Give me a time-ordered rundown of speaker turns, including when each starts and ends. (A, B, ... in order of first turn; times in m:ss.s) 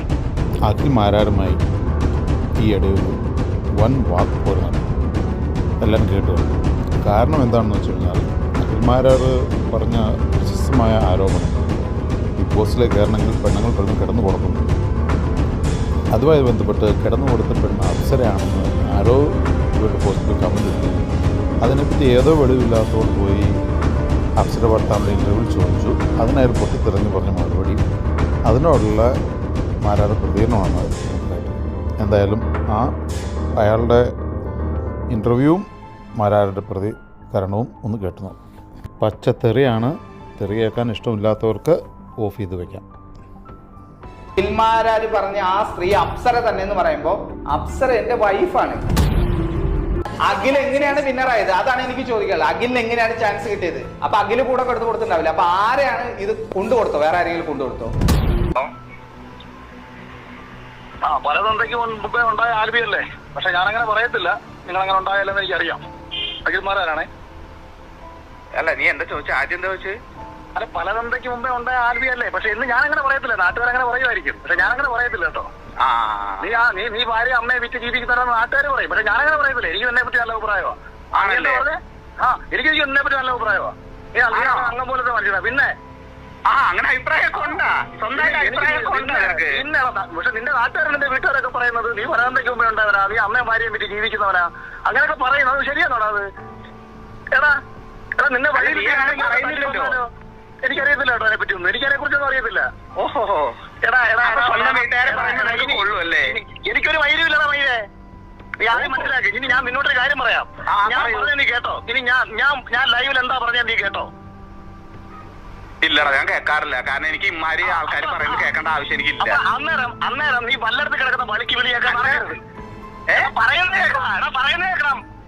0:00.6-0:01.6 A
0:02.6-0:03.2 A
0:03.8-0:04.8 A
0:05.8-0:11.6 A
0:12.4-0:14.7 A
0:16.1-0:19.2 A
0:19.8-0:21.1 A
0:21.6-0:23.5 A
0:24.4-0:27.8 A
0:28.4-0:29.1 A
0:29.8-0:32.9 A
0:33.6-0:34.0 A
0:35.1-0:35.7 A
0:36.2-0:38.4 A
0:39.0-0:42.8 A
0:44.4-0:48.8 B
0:50.3-0:57.9 B
1:01.0-1:05.8 C
1:06.4-1:07.1 C
1:08.5-1:10.0 D
1:10.5-1:15.5 C
1:15.8-1:16.5 D
1:16.4-1:25.7 C
1:21.2-1:21.7 D
1:24.3-1:24.7 D
1:26.5-1:29.6 D
1:28.2-1:36.2 C
1:38.2-1:40.1 C
1:38.5-1:40.0 D
1:40.6-1:42.7 C
1:43.0-1:43.6 D
1:43.8-1:47.8 C
1:44.2-1:46.3 D
1:48.6-1:54.1 C
1:48.7-1:49.1 D
1:50.7-1:51.3 D
1:55.8-1:59.4 D
1:57.6-1:58.5 C
1:59.2-2:02.4 C
2:01.8-2:02.2 D
2:03.2-2:05.0 C